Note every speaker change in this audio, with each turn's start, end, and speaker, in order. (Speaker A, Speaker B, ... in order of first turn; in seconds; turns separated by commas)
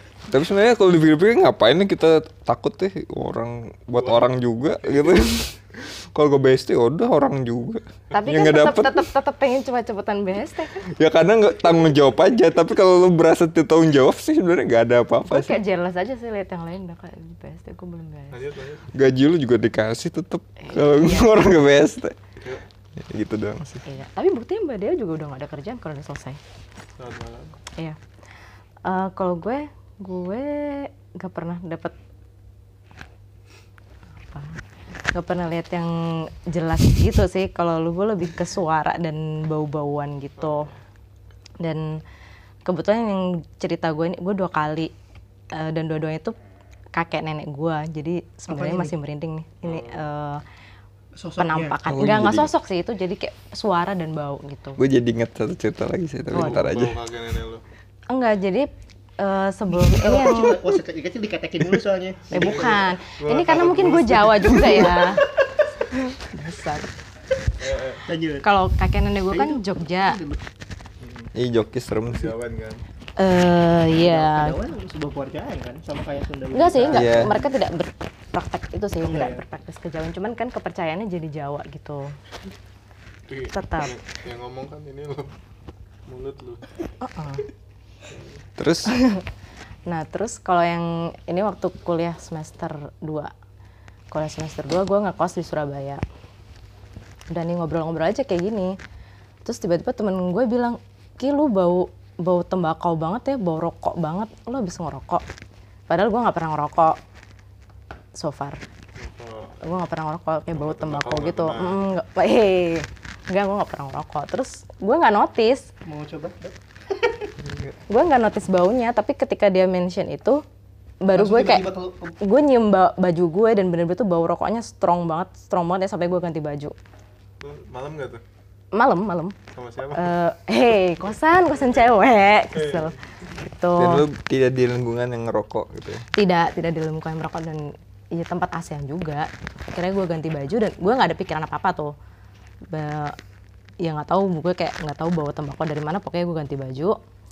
Speaker A: 0.3-5.5, Speaker B: 4.0-5.3, Speaker A: 6.1-9.1, Speaker C: 8.1-10.8, Speaker A: 10.9-15.6, Speaker C: 15.3-18.4, Speaker B: 18.3-18.9, Speaker A: 18.9-22.2, Speaker C: 20.6-21.5, Speaker A: 23.0-23.8, Speaker C: 23.8-26.4, Speaker B: 27.0-27.6, Speaker C: 28.8-31.9, Speaker C: 34.2-34.6, Speaker C: 35.1-40.7, Speaker B: 40.4-40.8, Speaker C: 41.6-42.0, Speaker C: 42.6-44.9, Speaker C: 45.5-46.3, Speaker C: 46.9-50.4, Speaker D: 48.5-48.9, Speaker B: 49.6-50.1, Speaker D: 51.1-51.8, Speaker C: 51.4-54.8, Speaker A: 51.9-52.5, Speaker A: 54.8-57.0, Speaker B: 56.3-57.6, Speaker C: 58.1-60.6, Speaker D: 59.7-62.9, Speaker B: 62.3-65.0, Speaker C: 62.3-65.2, Speaker C: 65.9-66.9, Speaker B: 67.6-68.0, Speaker D: 68.1-68.5, Speaker C: 68.4-70.2, Speaker D: 69.3-70.4, Speaker B: 71.0-71.3, Speaker A: 71.3-72.3, Speaker B: 72.1-72.8, Speaker C: 73.2-74.6, Speaker D: 73.9-77.5, Speaker C: 76.5-82.1, Speaker A: 76.9-77.3, Speaker D: 79.0-79.4, Speaker B: 83.3-85.3, Speaker C: 83.5-83.9, Speaker B: 86.1-86.7, Speaker C: 87.0-87.4, Speaker B: 88.1-88.4, Speaker A: 88.6-88.9, Speaker C: 88.9-89.2, Speaker C: 89.9-93.3, Speaker C: 94.1-96.0, Speaker C: 97.3-98.7, Speaker C: 99.4-105.2, Speaker C: 105.9-107.0, Speaker C: 108.2-108.6, Speaker B: 109.0-109.8, Speaker C: 109.6-115.7, Speaker B: 110.5-111.9, Speaker D: 115.8-117.3, Speaker A: 117.4-117.7, Speaker C: 117.9-120.4, Speaker C: 121.0-121.7, Speaker D: 121.1-122.1, Speaker C: 122.2-126.7, Speaker B: 127.4-128.2, Speaker C: 128.7-129.3, Speaker B: 129.5-130.1, Speaker C: 129.9-134.0, Speaker B: 131.3-132.9, Speaker A: 133.8-136.0, Speaker C: 136.2-141.9, Speaker C: 142.7-143.2, Speaker C: 143.8-147.0